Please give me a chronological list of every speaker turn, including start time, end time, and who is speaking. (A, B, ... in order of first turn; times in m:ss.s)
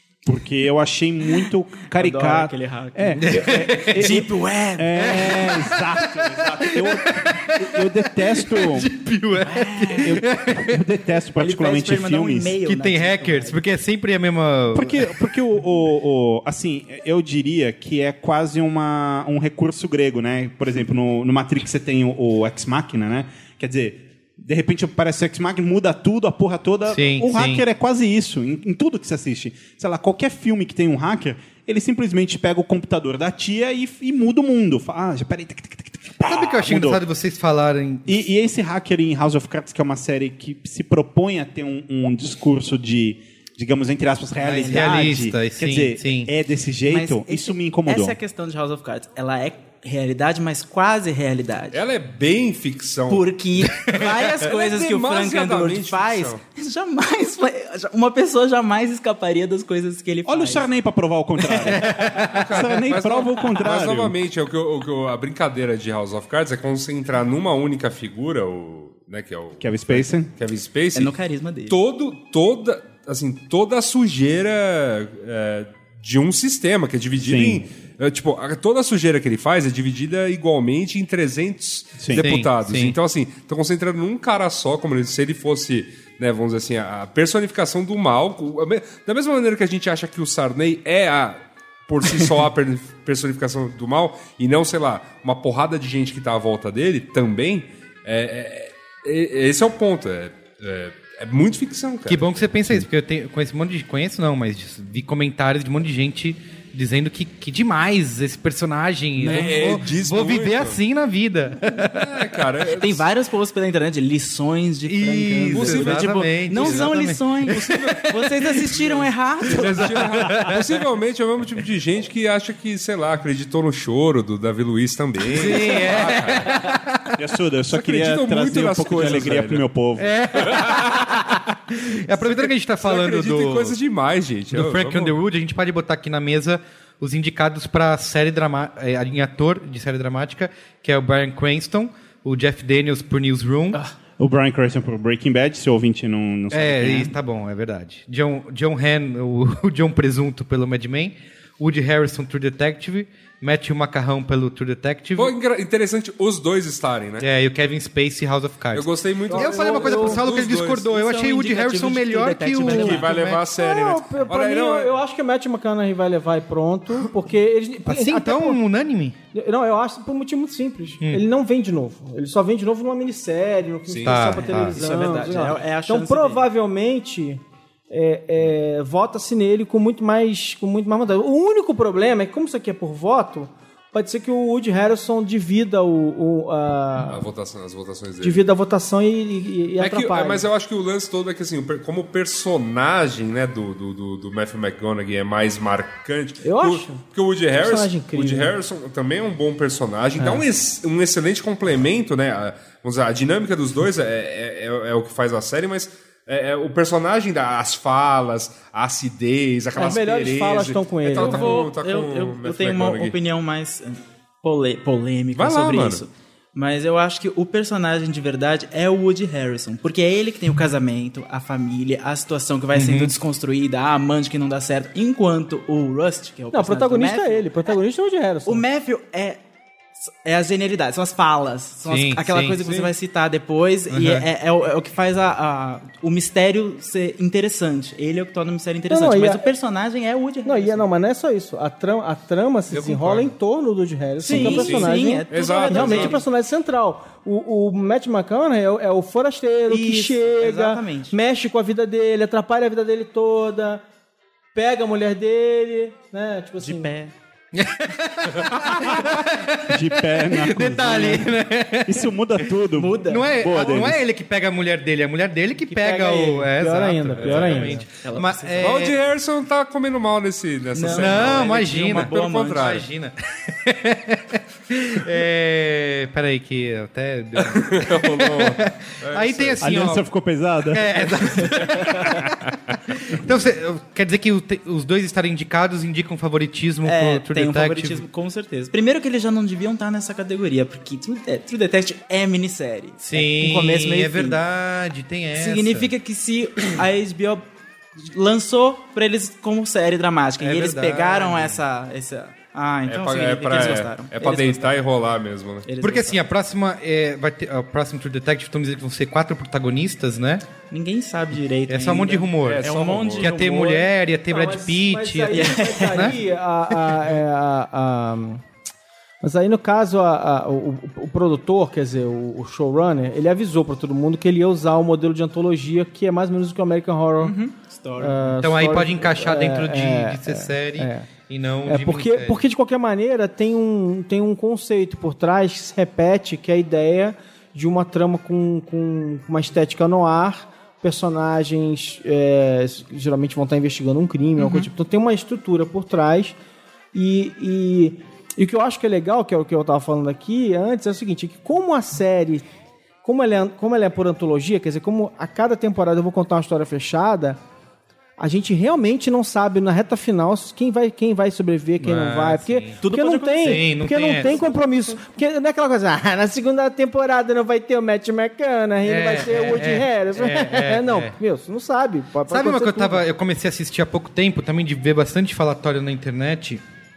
0:00.2-0:08.9 A
0:01.9-0:05.5 B
0:03.2-0:04.1 C
0:05.0-0:10.8 C
0:09.4-0:10.2 B
0:10.0-0:12.6 A
0:11.4-0:13.6 B
0:12.6-0:15.2 C
0:14.7-0:37.0 A
0:26.9-0:27.6 C
0:36.2-0:38.1 C
0:38.1-0:48.2 A
0:44.4-0:44.9 B
0:44.5-0:46.3 C
0:46.9-0:51.8 B
0:51.7-0:56.4 D
0:53.1-1:00.7 B
1:00.3-1:04.2 A
1:01.8-1:02.4 C
1:02.2-1:11.1 D
1:09.6-1:10.3 A
1:11.0-1:11.8 B
1:11.7-1:42.4 D
1:17.2-1:17.7 A
1:22.0-1:22.2 A
1:22.2-1:23.0 C
1:42.1-1:52.1 C
1:49.2-1:49.7 B
1:49.3-1:50.8 D
1:51.9-1:53.0 D
1:52.7-2:00.1 B
1:54.9-1:58.4 C
1:55.5-1:56.9 D
1:57.5-1:58.1 D
1:58.7-2:06.5 D
1:59.5-2:00.8 C
2:05.3-2:07.1 C
2:07.2-2:10.4 A
2:07.7-2:09.6 D
2:10.0-2:13.8 C
2:10.5-2:11.0 D
2:12.2-2:15.2 D
2:14.5-2:23.8 C
2:24.2-2:27.2 A
2:26.5-2:35.3 C
2:35.2-2:37.3 D
2:37.2-2:43.4 C
2:38.7-2:40.9 D
2:39.3-2:40.2 E
2:40.9-2:43.1 B
2:42.6-2:45.0 D
2:43.5-2:48.6 E
2:47.9-2:49.2 C
2:49.3-3:07.3 E
2:53.9-2:54.4 D
2:54.0-2:54.8 C
2:54.5-2:56.4 B
3:07.1-3:08.4 D
3:08.2-3:10.5 E
3:09.8-3:33.2 D
3:16.4-3:18.5 E
3:29.8-3:31.7 E
3:31.2-3:47.5 B
3:35.3-3:36.0 D
3:42.7-3:43.1 C
3:46.5-3:48.6 E
3:48.5-3:49.4 B
3:50.0-4:00.8 B
3:51.9-3:52.6 C
3:52.6-3:52.9 D
3:53.9-3:54.3 C
3:58.9-3:59.4 E
4:00.4-4:13.8 E
4:02.7-4:03.3 D
4:04.2-4:06.2 B
4:04.2-4:06.2 D
4:09.7-4:11.2 B
4:14.6-4:16.9 E
4:16.6-4:17.1 B
4:17.5-4:22.5 C
4:19.7-4:24.0 A
4:22.7-4:23.3 B
4:23.1-4:29.0 C
4:25.7-4:27.9 E
4:27.2-4:27.7 D
4:27.9-4:28.8 B
4:28.6-4:32.9 D
4:30.7-4:32.8 B
4:30.9-4:40.1 C
4:37.4-4:39.9 D
4:39.6-4:41.1 A
4:40.7-4:48.0 C
4:46.8-4:54.4 B
4:53.0-4:55.9 C
4:55.3-4:57.4 B
4:58.0-5:04.8 B
5:00.4-5:01.6 C
5:02.9-5:05.7 D
5:05.6-5:06.2 B
5:05.8-5:10.4 C
5:10.7-5:13.9 B
5:11.7-5:16.2 C
5:12.4-5:13.3 D
5:14.3-5:18.4 E
5:15.3-5:16.2 B
5:19.2-5:27.4 E
5:27.2-5:28.3 B
5:28.0-5:31.1 E
5:28.4-5:32.4 C
5:31.7-5:46.4 E
5:44.4-5:44.7 B
5:46.9-5:52.5 E
5:53.0-5:57.4 E
5:58.2-6:13.0 E
6:01.8-6:02.8 C
6:02.8-6:04.6 B
6:03.4-6:04.4 C
6:08.8-6:11.2 C
6:12.3-6:16.6 C